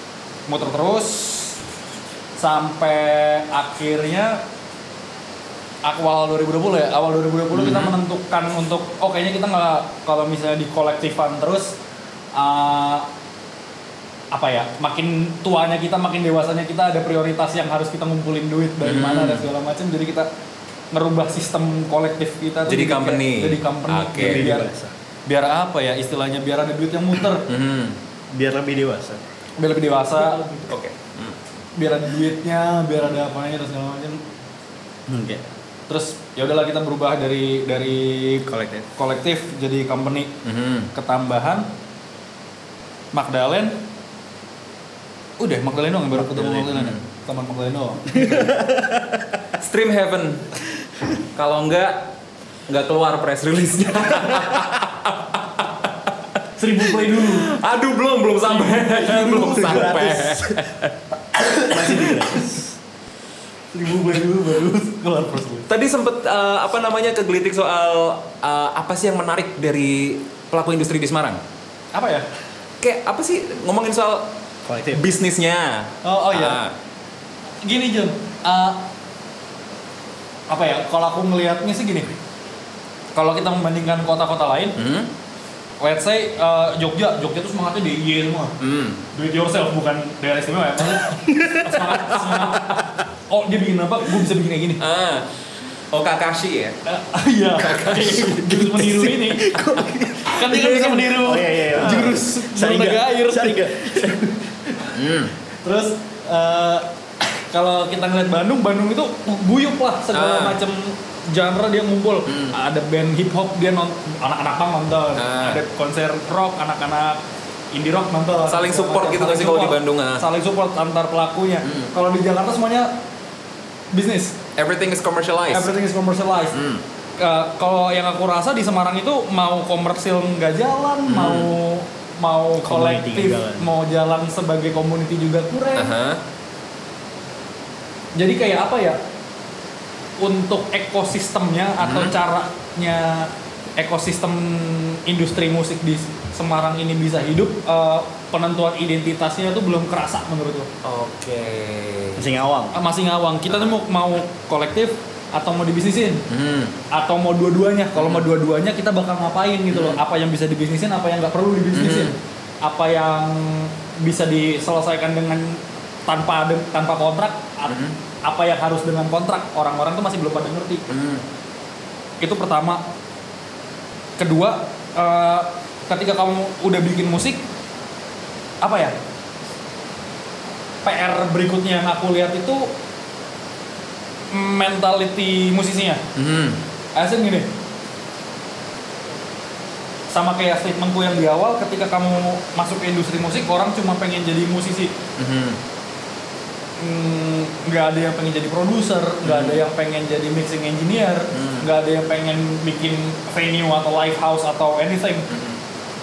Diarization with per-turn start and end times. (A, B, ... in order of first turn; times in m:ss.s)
0:00.5-0:01.6 A
0:02.4-0:04.4 A
0:05.8-0:11.8 A
0:07.5-0:07.9 B
0:12.3-0:13.1 A
0:14.3-0:20.3 A
0:18.8-0:19.5 B
0:20.9-0:24.7 A
0:22.6-0:24.5 B
0:24.2-0:24.9 C
0:25.3-0:27.4 A
0:27.4-0:28.0 B
0:28.3-0:29.2 C
0:29.6-0:30.5 A
0:30.5-0:31.4 B
0:31.8-0:34.2 A
0:35.1-0:35.5 C
0:35.9-0:40.4 A
0:38.5-0:38.9 C
0:40.4-0:40.9 B
0:40.9-0:41.7 A
0:43.1-0:43.8 A
0:45.4-0:48.5 A
0:46.1-0:46.7 C
0:46.7-0:47.0 B
0:48.1-0:49.2 C
0:49.6-0:50.4 B
0:51.3-0:52.1 B
0:52.7-0:56.1 B
0:56.6-0:57.5 A
0:57.1-1:00.9 B
0:58.5-1:00.1 A
0:59.4-1:00.6 C
1:01.4-1:02.4 A
1:01.7-1:02.7 C
1:03.7-1:05.7 A
1:05.7-1:11.4 B
1:11.9-1:12.3 A
1:12.8-1:14.4 B
1:14.6-1:15.0 C
1:14.9-1:16.7 B
1:16.0-1:16.6 A
1:17.6-1:18.9 A
1:20.5-1:22.1 A
1:23.1-1:24.8 A
1:24.8-1:25.1 B
1:25.8-1:28.5 A
1:28.6-1:29.0 B
1:29.1-1:34.8 A
1:31.2-1:31.8 C
1:32.2-1:32.5 B
1:34.8-1:35.3 B
1:35.9-1:36.8 B
1:36.8-1:44.9 A
1:37.6-1:39.0 B
1:39.2-1:44.3 C
1:44.9-1:45.3 B
1:45.6-2:03.0 A
1:50.1-1:50.6 B
1:52.3-1:52.5 B
1:55.2-1:55.6 B
1:58.5-2:00.2 B
2:01.6-2:01.9 B
2:03.9-2:04.4 A
2:04.6-2:05.7 B
2:05.5-2:06.6 A
2:06.5-2:06.8 B
2:07.2-2:15.9 A
2:11.1-2:11.5 B
2:12.6-2:13.7 C
2:15.8-2:16.2 B
2:18.2-2:19.0 A
2:20.2-2:30.7 A
2:21.8-2:22.1 B
2:30.8-2:32.3 B
2:32.2-2:32.8 C
2:32.7-2:36.2 A
2:36.3-2:36.7 B
2:36.9-2:50.8 A
2:38.0-2:38.3 B
2:39.7-2:40.0 B
2:41.7-2:42.1 B
2:47.7-2:48.0 B
2:50.9-2:51.2 B
2:52.2-2:52.8 A
2:54.2-2:57.4 A
2:58.6-2:59.0 A
3:00.8-3:02.7 A
3:04.3-3:06.0 A
3:06.2-3:06.6 B
3:07.0-3:07.5 A
3:10.1-3:14.9 A
3:15.2-3:15.6 B
3:16.8-3:25.3 A
3:19.2-3:19.6 B
3:21.3-3:21.6 B
3:25.3-3:25.6 B